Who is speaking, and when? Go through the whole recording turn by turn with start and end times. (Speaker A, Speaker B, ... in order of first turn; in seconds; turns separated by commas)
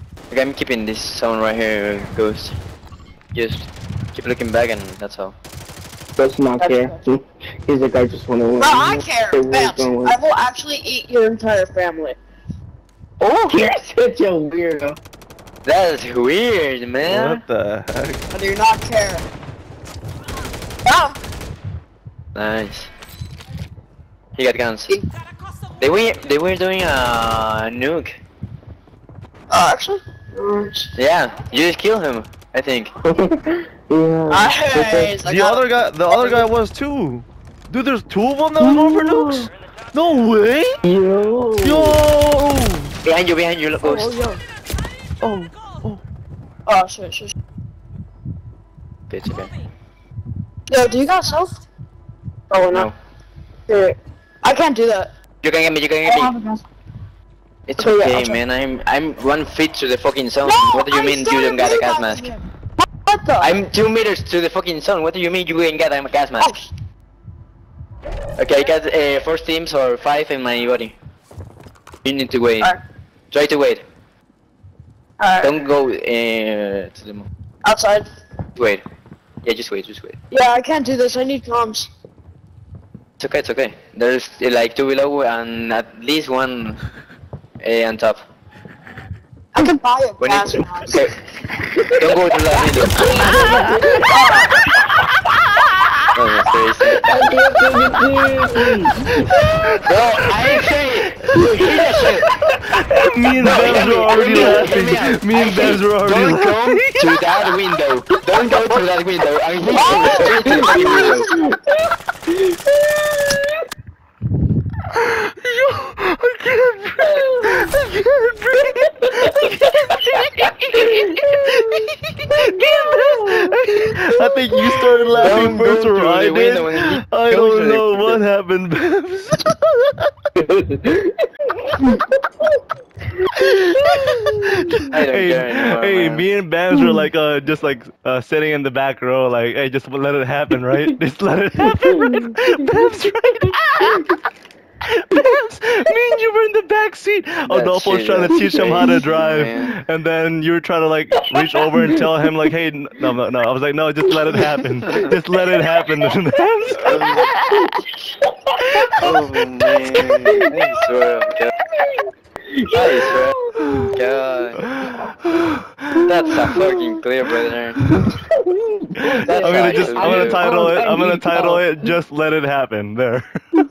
Speaker A: 0.3-2.5, Speaker A: 3.3-5.3, Speaker B: 6.2-10.2, Speaker C: 6.6-7.0, Speaker C: 8.6-12.2, Speaker B: 13.2-15.0, Speaker A: 15.6-17.4, Speaker D: 17.0-18.2, Speaker C: 18.3-19.2, Speaker C: 20.8-21.1, Speaker A: 22.3-22.9, Speaker A: 24.4-25.0, Speaker A: 25.8-28.1, Speaker C: 29.5-30.9, Speaker A: 30.9-32.9, Speaker B: 33.0-35.1, Speaker C: 34.3-36.5, Speaker D: 35.2-40.8, Speaker B: 38.6-39.5, Speaker B: 40.8-42.0, Speaker D: 41.6-42.9, Speaker A: 43.0-44.2, Speaker D: 45.2-46.0, Speaker C: 46.6-47.3, Speaker A: 49.1-49.5, Speaker C: 50.7-51.6, Speaker C: 52.5-52.9, Speaker A: 52.7-52.9, Speaker C: 53.7-55.1, Speaker A: 55.4-56.3, Speaker C: 56.0-56.6, Speaker A: 57.7-62.3, Speaker B: 57.8-58.4, Speaker C: 60.4-63.5, Speaker A: 63.4-66.5, Speaker C: 66.4-66.6, Speaker A: 68.4-70.9, Speaker A: 72.0-72.7, Speaker A: 73.3-73.8, Speaker C: 75.2-75.5, Speaker A: 75.4-77.3, Speaker C: 77.6-78.0, Speaker A: 78.6-78.8, Speaker A: 79.4-80.2, Speaker C: 80.3-81.9, Speaker A: 83.2-86.8, Speaker A: 87.6-88.2, Speaker C: 89.5-91.0, Speaker A: 90.2-91.1, Speaker A: 92.0-93.1, Speaker B: 92.8-94.2, Speaker D: 93.2-94.0, Speaker C: 94.0-94.6, Speaker D: 95.5-96.0, Speaker A: 96.1-97.1, Speaker B: 97.0-99.3, Speaker D: 99.0-100.7, Speaker A: 99.8-102.3, Speaker D: 101.3-107.2, Speaker B: 101.3-102.0, Speaker A: 103.4-111.3, Speaker B: 103.5-104.5, Speaker B: 108.2-108.6, Speaker B: 109.6-111.6, Speaker C: 109.7-111.5, Speaker B: 112.3-113.6, Speaker D: 114.9-130.1, Speaker B: 120.9-121.7, Speaker B: 122.4-123.5, Speaker B: 124.7-125.0, Speaker A: 125.2-128.2, Speaker B: 130.3-132.2, Speaker D: 133.3-144.2, Speaker A: 134.9-136.2, Speaker B: 136.7-137.0, Speaker B: 141.6-142.2, Speaker D: 144.8-157.7, Speaker A: 147.4-149.8, Speaker B: 148.5-149.0, Speaker B: 151.4-152.3, Speaker B: 154.2-154.7, Speaker A: 156.8-157.3, Speaker B: 157.5-158.8, Speaker D: 158.6-159.2, Speaker A: 159.0-161.5, Speaker B: 160.0-160.7, Speaker B: 162.5-163.9, Speaker A: 162.7-163.4, Speaker D: 163.6-163.9, Speaker A: 163.9-164.7, Speaker D: 164.6-166.1, Speaker B: 165.9-167.0, Speaker A: 166.0-167.8, Speaker D: 167.8-168.1, Speaker B: 168.2-171.9, Speaker D: 169.0-173.3, Speaker A: 169.2-170.6